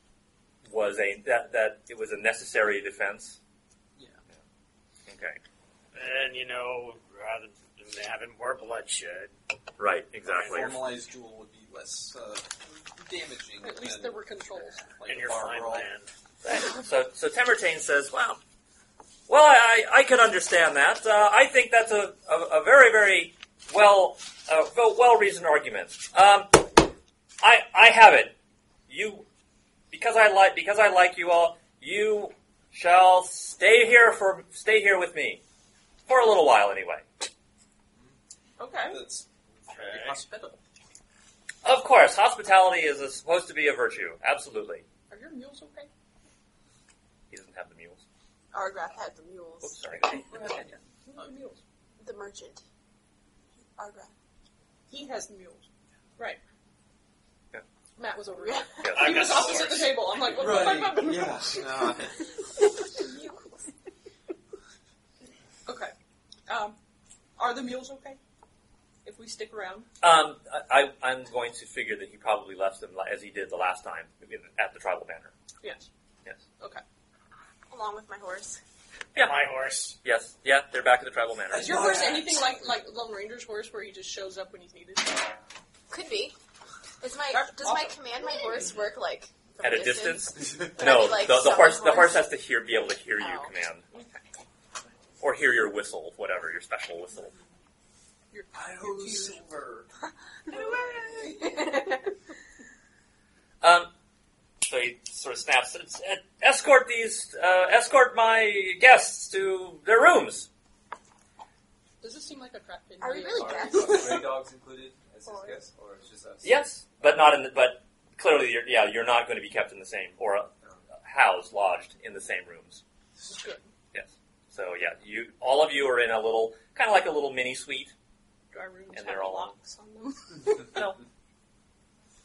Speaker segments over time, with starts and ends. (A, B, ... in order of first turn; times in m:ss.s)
0:00.6-0:03.4 A
0:04.0-0:04.2 B
0:05.1-0:05.4 A
0:05.9-0:09.3 C
0:09.8-0:10.8 A
0:10.3-0:14.2 B
0:13.6-0:14.9 D
0:14.8-0:15.9 B
0:15.0-0:16.1 C
0:16.4-0:18.4 A
0:19.3-0:26.8 A
0:27.4-0:28.4 A
0:28.9-0:29.2 A
0:29.9-0:35.4 A
0:36.1-0:37.1 A
0:38.6-0:39.0 D
0:38.9-0:40.6 B
0:39.7-0:40.2 C
0:41.6-0:44.8 A
0:45.1-0:45.9 D
0:47.3-0:48.0 A
0:48.5-0:49.8 E
0:49.6-0:50.7 A
0:50.3-0:51.6 D
0:52.0-0:52.6 E
0:53.8-0:54.1 E
0:54.9-0:56.4 D
0:58.0-1:01.7 D
0:58.4-0:59.0 E
0:58.8-0:59.8 A
0:59.0-1:02.3 B
1:02.8-1:03.7 E
1:05.6-1:05.9 D
1:06.5-1:06.8 D
1:07.4-1:08.2 D
1:09.0-1:09.9 D
1:10.0-1:15.3 A
1:15.6-1:15.9 D
1:17.7-1:18.6 E
1:19.1-1:19.4 A
1:19.1-1:20.0 C
1:20.0-1:21.8 A
1:21.5-1:25.3 D
1:21.6-1:22.2 B
1:25.9-1:26.4 E
1:27.0-1:32.3 E
1:27.3-1:28.5 D
1:29.6-1:33.9 A
1:33.2-1:33.5 E
1:35.2-1:37.3 A
1:38.3-1:39.4 D
1:38.5-1:39.9 B
1:40.5-1:42.0 E
1:40.5-1:41.8 D
1:43.6-1:43.9 A
1:44.6-1:50.5 A
1:52.0-1:54.2 D
1:53.0-1:54.4 E
1:53.3-1:56.6 F
1:55.2-1:55.6 E
1:56.4-2:02.8 A
2:03.2-2:03.7 D
2:03.9-2:07.9 A
2:08.5-2:10.8 D
2:08.9-2:09.5 A
2:10.7-2:11.0 A